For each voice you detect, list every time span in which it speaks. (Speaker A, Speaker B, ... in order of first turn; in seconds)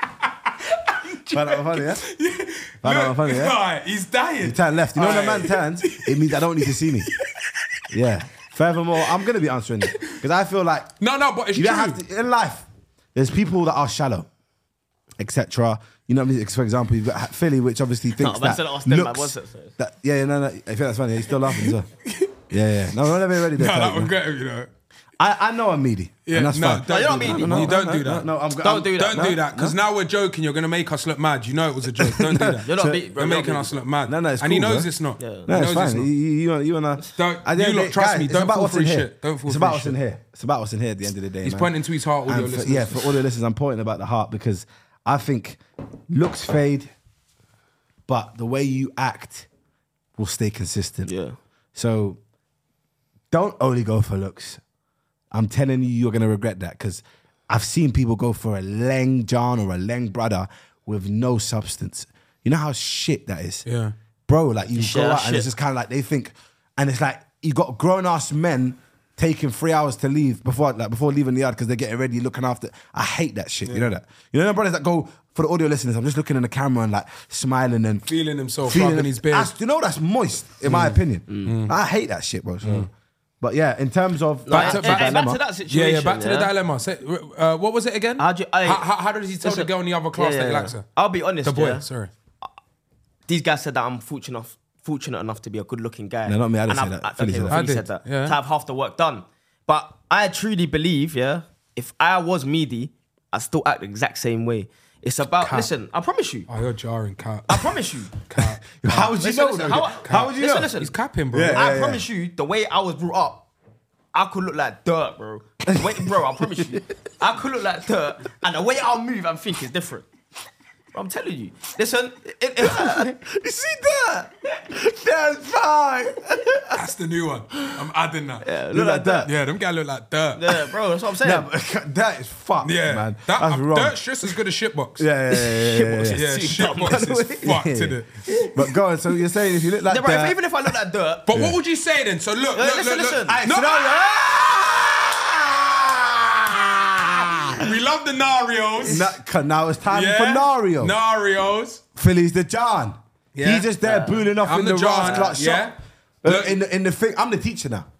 Speaker A: 0.6-7.8, 11.0-12.0, 21.6-22.3, 23.5-24.7, 26.2-28.3, 28.9-36.1, 37.2-40.0, 41.4-43.2, 63.6-63.9, 78.1-79.5, 81.5-81.7, 84.5-90.8, 91.4-92.1, 97.5-98.3, 105.4-105.7, 106.5-108.8, 109.7-111.6, 126.7-128.5, 129.2-130.7, 132.6-135.0, 136.1-138.1, 141.3-144.1, 147.6-149.1, 149.9-151.8, 153.3-153.7, 154.4-156.6
Speaker B: 1.3-2.0, 2.8-3.6, 4.4-7.1, 7.9-10.9, 11.5-14.3, 15.2-21.9, 22.5-24.1, 25.2-29.8, 31.9-33.0, 34.1-34.9, 35.5-41.7, 42.2-46.9, 48.1-49.5, 50.2-51.1, 51.7-52.2, 53.3-54.6, 55.3-63.6, 64.3-78.1, 78.6-82.9, 83.4-85.4, 96.2-97.6, 108.8-110.7, 111.3-112.0, 115.6-116.8, 122.6-126.7, 128.7-129.3, 131.2-134.0, 135.0-136.3, 137.4-138.0, 138.5-140.4, 141.3-141.6, 143.3-147.7, 148.8-150.9, 151.9-155.7, 156.2-157.9
Speaker C: 18.2-19.7, 26.9-27.7, 28.6-29.3, 32.6-33.8, 35.2-35.5, 51.0-51.4, 64.8-65.5, 80.7-81.5, 84.5-86.5, 88.2-88.8, 89.4-91.8, 93.3-106.5, 107.5-108.1, 108.9-110.9, 111.5-113.5, 114.1-120.1, 120.9-123.1, 128.4-129.3, 130.3-131.5, 135.3-137.4, 138.3-138.6, 139.9-141.2, 142.5-143.4, 153.8-154.3, 155.0-155.3